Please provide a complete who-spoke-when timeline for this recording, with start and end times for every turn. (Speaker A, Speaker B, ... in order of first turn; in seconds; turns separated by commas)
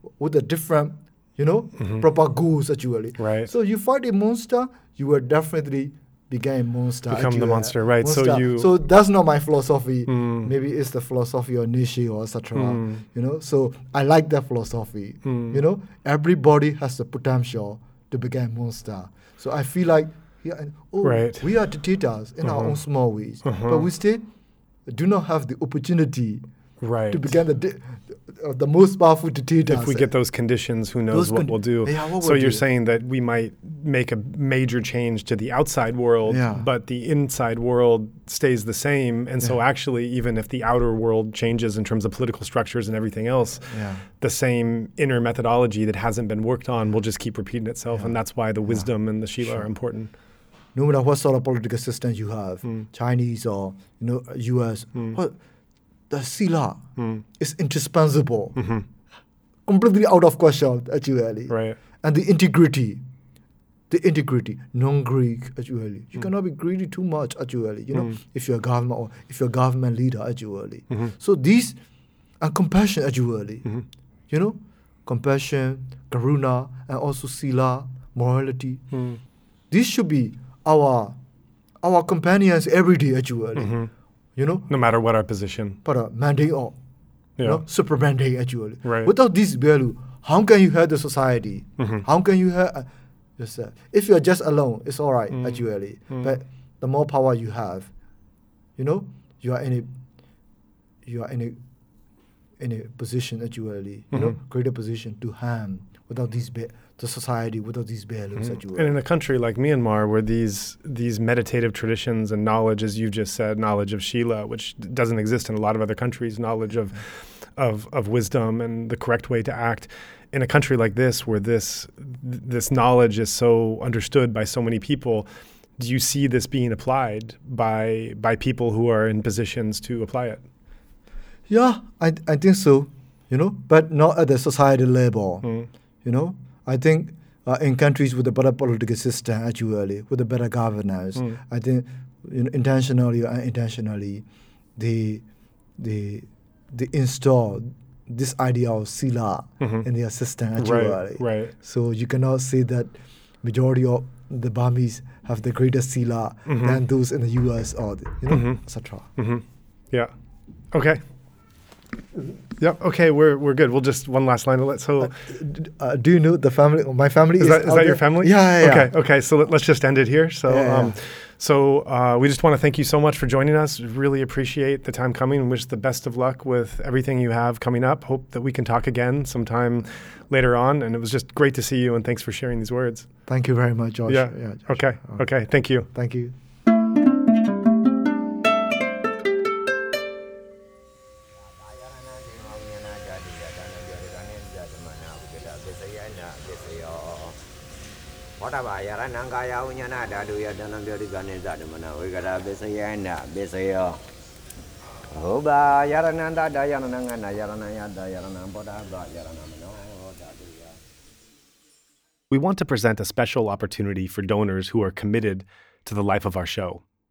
Speaker A: 0.2-24.2, Speaker B: 1.8-2.0, Speaker B: 3.2-3.5, Speaker B: 7.1-8.7, Speaker B: 10.1-10.5, Speaker B: 12.6-13.0, Speaker B: 15.2-15.6, Speaker B: 21.0-21.5, Speaker B: 22.4-22.8, Speaker B: 23.4-23.9, Speaker A: 24.9-26.4, Speaker B: 26.8-27.4, Speaker A: 27.1-30.1, Speaker B: 29.7-50.1, Speaker A: 31.1-32.6, Speaker A: 36.3-36.7, Speaker A: 43.7-44.1, Speaker A: 47.9-48.9, Speaker A: 49.4-49.7, Speaker A: 50.7-55.4, Speaker A: 56.1-56.8, Speaker B: 57.0-57.2, Speaker A: 57.4-58.6, Speaker B: 58.6-58.9, Speaker A: 59.7-63.0, Speaker B: 61.5-61.8, Speaker A: 63.9-71.8, Speaker A: 72.4-73.7, Speaker A: 74.3-78.8, Speaker B: 78.9-79.2, Speaker A: 79.7-81.2, Speaker A: 81.8-83.7, Speaker B: 83.6-83.9, Speaker A: 84.4-84.7, Speaker B: 84.7-85.8, Speaker A: 85.8-86.8, Speaker B: 87.4-87.6, Speaker A: 87.4-97.9, Speaker B: 88.8-89.1, Speaker B: 91.8-92.0, Speaker B: 95.3-96.3, Speaker A: 98.8-99.9, Speaker A: 101.0-101.6, Speaker A: 102.6-109.0, Speaker B: 104.1-104.4, Speaker B: 108.4-125.3, Speaker B: 125.8-130.4, Speaker A: 131.5-135.5, Speaker B: 135.4-135.7, Speaker A: 136.0-145.2, Speaker A: 145.8-159.1, Speaker B: 150.6-151.5, Speaker B: 156.5-156.8, Speaker B: 158.3-158.6, Speaker B: 159.2-160.1, Speaker B: 160.7-161.0, Speaker B: 162.6-165.1, Speaker A: 165.0-168.9, Speaker B: 167.4-183.1, Speaker A: 170.5-171.0, Speaker A: 183.3-185.2, Speaker B: 184.1-185.9, Speaker A: 185.9-186.3, Speaker C: 191.4-197.4, Speaker C: 198.4-204.0, Speaker C: 205.1-210.8, Speaker B: 212.3-216.8